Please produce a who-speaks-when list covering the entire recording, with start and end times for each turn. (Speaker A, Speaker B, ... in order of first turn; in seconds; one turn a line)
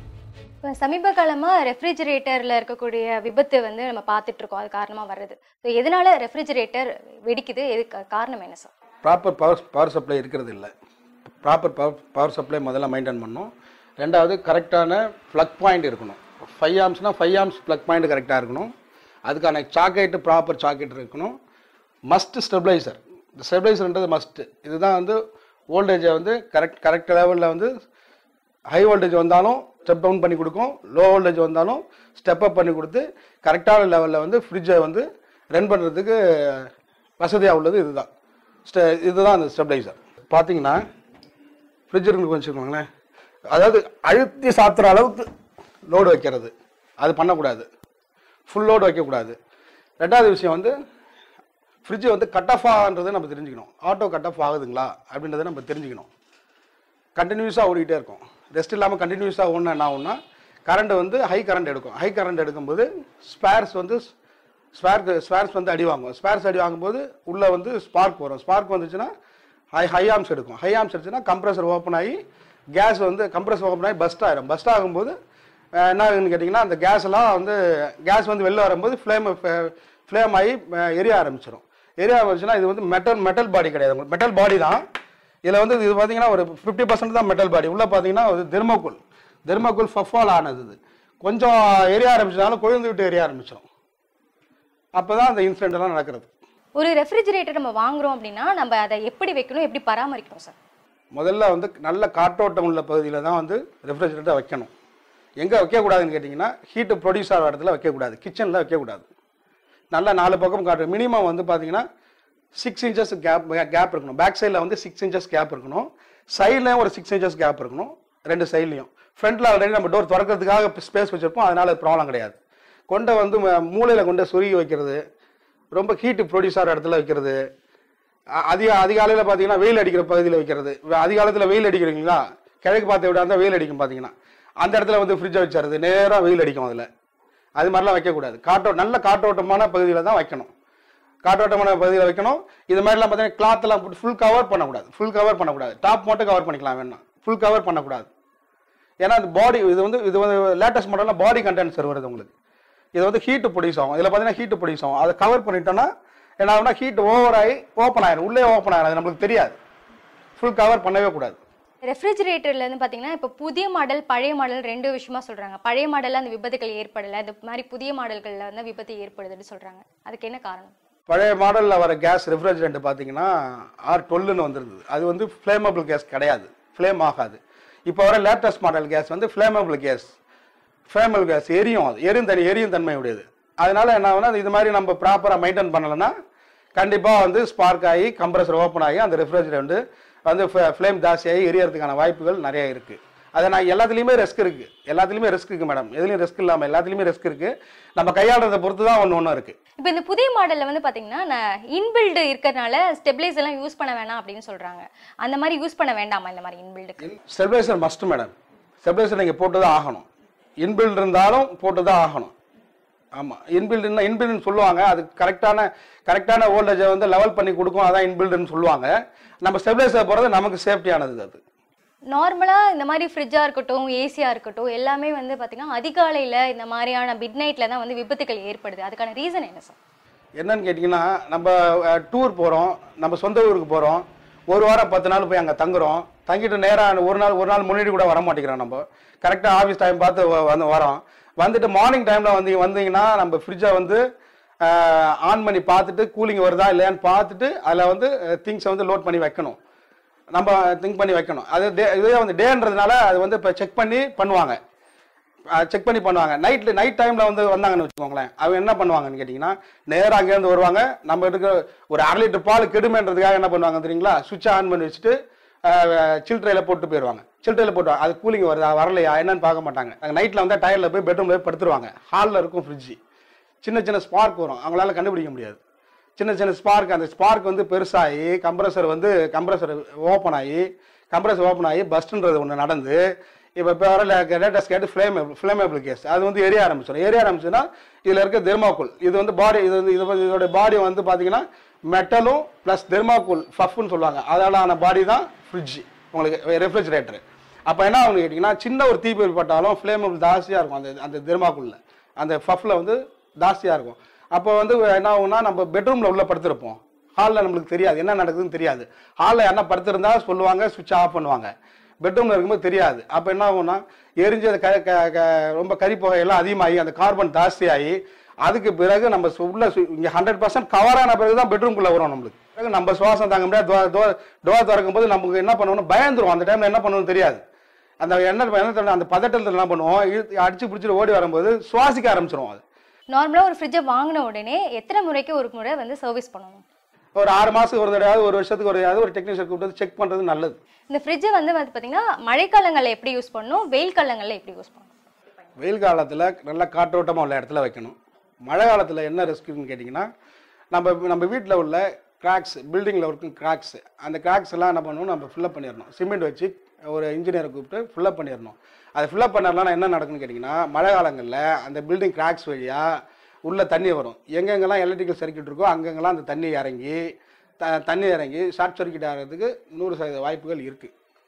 Speaker A: 0.6-8.7
Speaker B: 9.0-10.7
Speaker B: 11.4-18.7
Speaker B: 19.2-21.4
Speaker B: 22.1-25.2
Speaker B: 25.7-27.7
Speaker B: 28.7-38.1
Speaker B: 38.6-40.8
Speaker B: 41.9-42.8
Speaker B: 43.5-45.3
Speaker B: 45.9-47.6
Speaker B: 48.5-49.4
Speaker B: 50.0-50.7
Speaker B: 51.8-56.1
Speaker B: 57.1-64.1
Speaker B: 64.7-69.1
Speaker B: 69.7-72.2
Speaker B: 72.7-75.1
Speaker B: 75.8-84.8
Speaker B: 85.5-93.7
Speaker B: 95.0-96.3
Speaker A: 96.8-100.5
Speaker B: 101.1-104.7
Speaker B: 105.4-109.1
Speaker B: 109.9-111.8
Speaker B: 112.6-122.4
Speaker B: 122.9-125.0
Speaker B: 125.7-127.4
Speaker B: 128.5-136.9
Speaker B: 137.6-140.5
Speaker B: 141.2-148.1
Speaker B: 149.0-152.3
Speaker B: 152.9-155.9
Speaker B: 156.4-159.6
Speaker B: 160.4-161.4
Speaker A: 161.8-170.7
Speaker B: 171.1-173.3
Speaker B: 173.8-180.1
Speaker B: 180.9-186.1
Speaker B: 186.8-199.6
Speaker A: 199.8-207.1
Speaker B: 207.0-210.1
Speaker B: 210.6-212.3
Speaker B: 213.2-218.9
Speaker B: 219.4-221.4
Speaker A: 222.1-229.8
Speaker B: 230.4-244.0
Speaker B: 244.6-249.6
Speaker B: 250.3-254.6
Speaker B: 255.5-265.1
Speaker B: 265.6-273.0
Speaker B: 273.6-275.6
Speaker B: 276.2-283.0
Speaker B: 283.6-311.5
Speaker B: 312.0-327.4
Speaker B: 328.0-332.6
Speaker A: 333.1-336.6
Speaker B: 337.1-340.6
Speaker A: 340.9-344.9
Speaker B: 345.6-350.1
Speaker B: 350.7-362.9
Speaker B: 363.4-367.0
Speaker B: 367.6-370.9